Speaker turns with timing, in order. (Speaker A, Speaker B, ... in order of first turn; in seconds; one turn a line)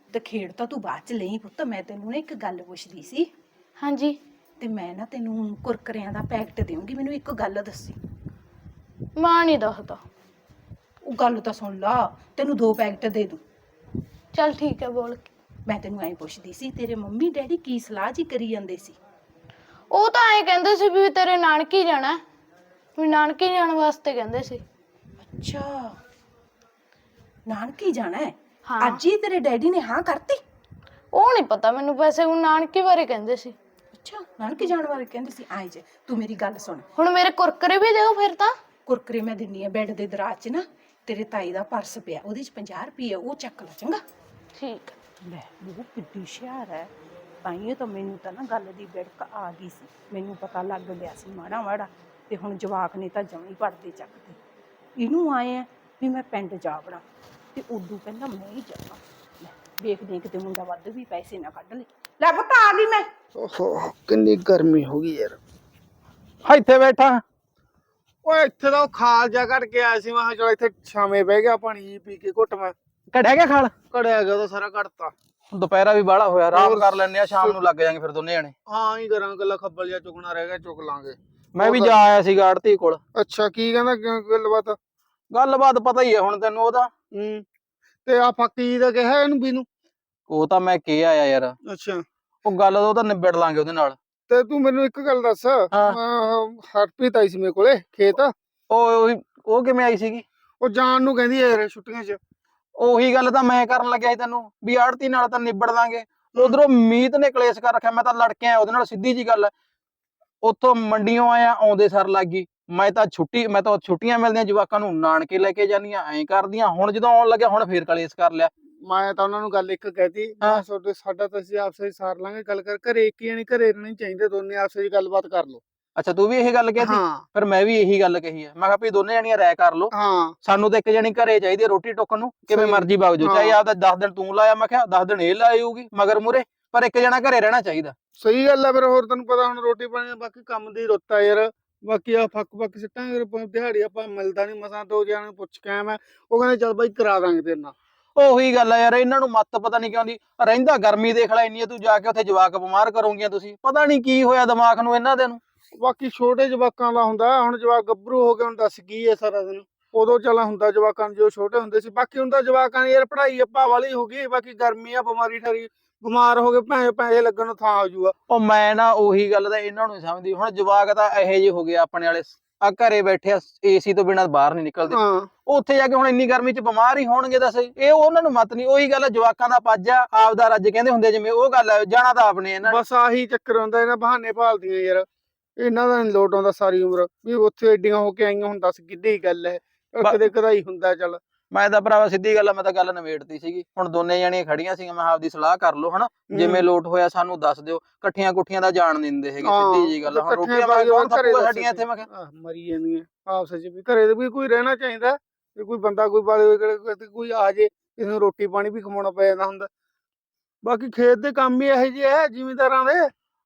Speaker A: 0.1-3.3
Speaker B: 3.8-4.2
Speaker A: 4.6-8.0
Speaker B: 9.2-10.0
Speaker A: 11.0-13.4
Speaker B: 14.3-15.3
Speaker A: 15.7-19.0
Speaker B: 19.9-22.2
Speaker B: 22.9-24.6
Speaker A: 25.2-26.0
Speaker A: 27.5-30.4
Speaker B: 28.7-29.0
Speaker B: 31.1-33.5
Speaker A: 33.9-36.9
Speaker B: 37.0-38.5
Speaker A: 38.9-44.0
Speaker B: 44.5-45.0
Speaker A: 45.2-46.9
Speaker A: 47.4-54.4
Speaker A: 55.0-57.0
Speaker A: 57.5-63.1
Speaker C: 63.4-65.4
Speaker D: 66.5-67.2
Speaker C: 68.2-72.7
Speaker D: 73.1-73.7
Speaker C: 73.9-75.1
Speaker D: 75.5-78.5
Speaker C: 76.5-77.5
Speaker C: 78.7-81.9
Speaker D: 81.5-83.0
Speaker C: 83.2-84.8
Speaker D: 85.3-86.9
Speaker C: 87.1-87.4
Speaker C: 88.0-89.7
Speaker D: 90.3-91.5
Speaker C: 91.7-92.0
Speaker D: 92.4-94.0
Speaker C: 94.3-98.3
Speaker D: 95.7-96.0
Speaker D: 98.7-100.2
Speaker C: 100.6-102.2
Speaker D: 102.8-109.5
Speaker D: 110.4-118.5
Speaker C: 118.8-125.6
Speaker D: 126.0-129.9
Speaker C: 126.8-127.2
Speaker C: 129.9-130.3
Speaker D: 130.4-137.9
Speaker C: 132.5-133.5
Speaker C: 138.2-147.7
Speaker D: 148.2-155.4
Speaker C: 155.8-168.1
Speaker D: 168.3-182.8
Speaker C: 174.9-175.3
Speaker C: 182.7-185.1
Speaker C: 185.6-191.2
Speaker D: 191.5-202.1
Speaker C: 196.3-196.6
Speaker C: 199.4-209.7
Speaker C: 210.6-213.1